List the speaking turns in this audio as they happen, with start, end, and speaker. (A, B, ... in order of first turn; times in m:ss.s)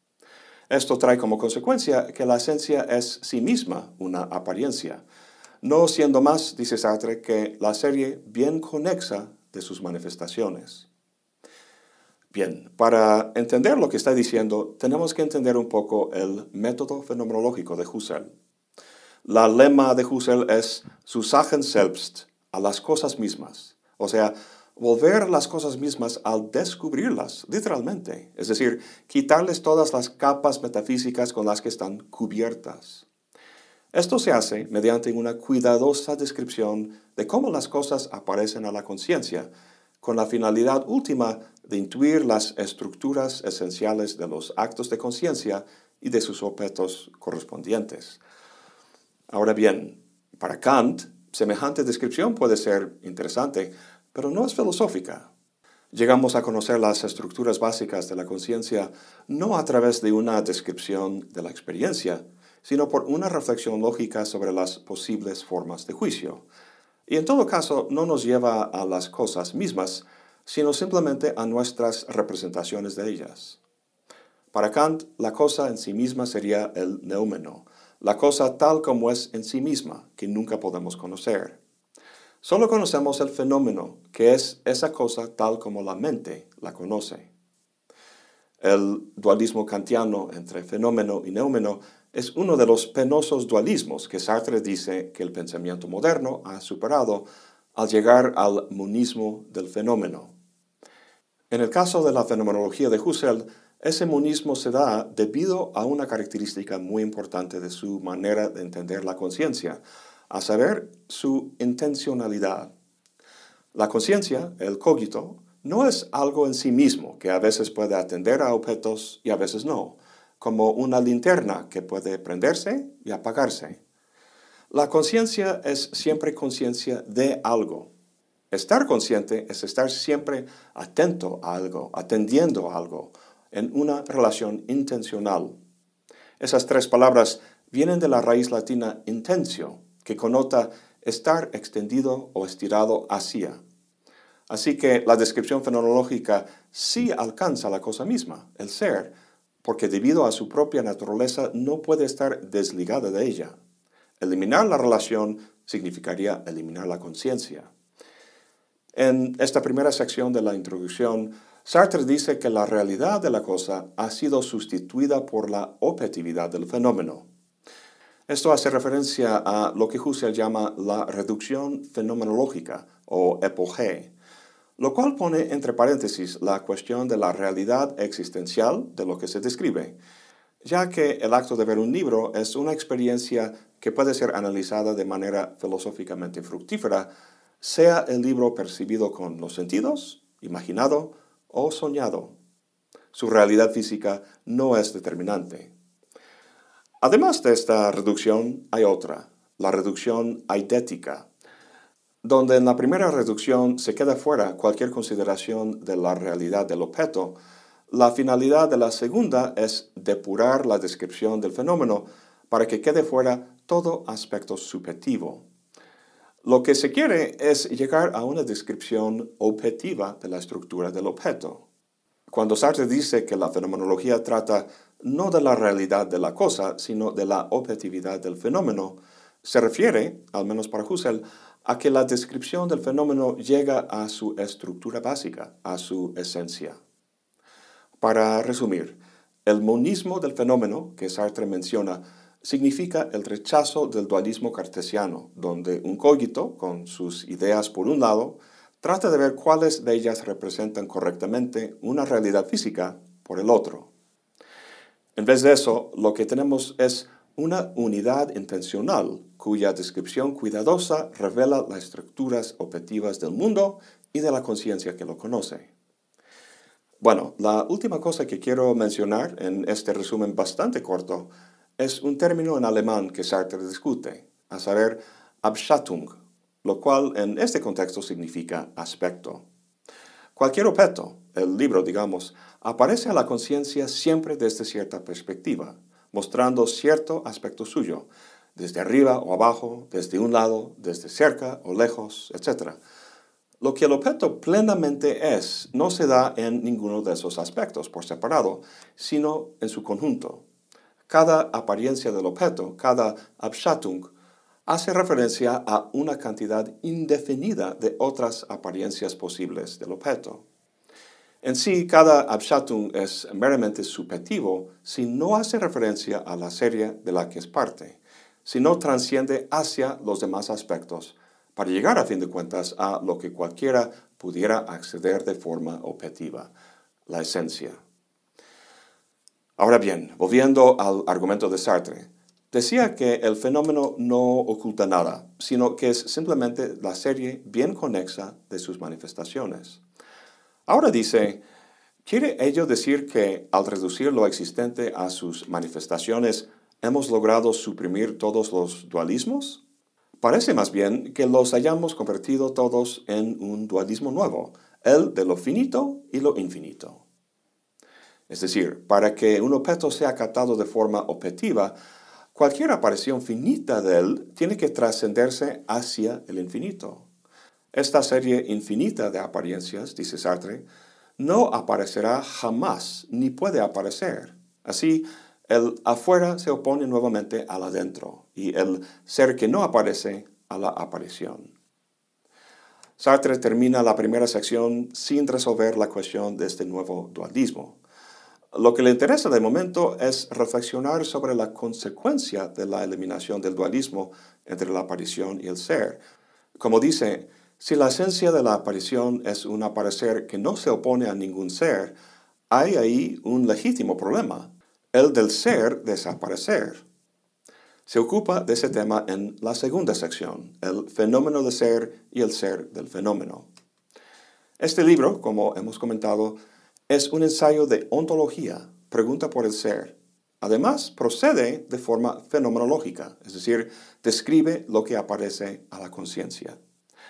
0:00.7-0:05.0 A
0:05.6-0:10.9 A
0:12.3-0:18.3 A
0:19.2-0:33.1 A
0:33.9-0:39.5 A
0:40.0-0:48.2 A
0:49.3-0:55.3 A
0:55.9-1:06.4 A
1:07.1-1:13.6 A
1:14.5-1:21.6 A
1:22.4-1:27.3 A
1:28.6-1:40.3 A
1:41.5-1:52.7 A
1:53.7-2:03.8 A
2:04.7-2:07.9 A
2:08.5-2:15.6 A
2:16.4-2:23.6 A
2:24.5-2:29.1 A
2:29.6-2:33.6 A
2:34.2-2:37.7 A
2:38.9-2:47.3 A
2:48.3-2:54.1 A
2:54.8-3:00.0 A
3:00.6-3:07.1 A
3:07.6-3:12.4 A
3:13.1-3:15.7 A
3:17.0-3:21.3 A
3:22.2-3:27.4 A
3:27.9-3:35.4 A
3:36.4-3:41.6 A
3:42.3-3:56.8 A
3:58.0-4:13.9 A
4:15.2-4:25.7 A
4:27.0-4:39.4 A
4:40.4-4:52.8 A
4:53.6-5:00.4 A
5:01.1-5:04.1 A
5:04.7-5:10.4 A
5:11.4-5:26.5 A
5:27.1-5:27.8 A
5:29.6-5:39.8 A
5:40.7-5:41.4 A
5:42.0-5:49.6 A
5:50.2-5:57.0 A
5:58.3-6:01.7 A
6:02.4-6:07.1 A
6:07.7-6:10.6 A
6:11.2-6:21.5 A
6:23.0-6:27.8 A
6:28.5-6:36.0 A
6:36.6-6:42.0 A
6:42.5-6:46.8 A
6:47.9-6:53.5 A
6:54.6-6:56.4 A
6:56.9-7:06.6 A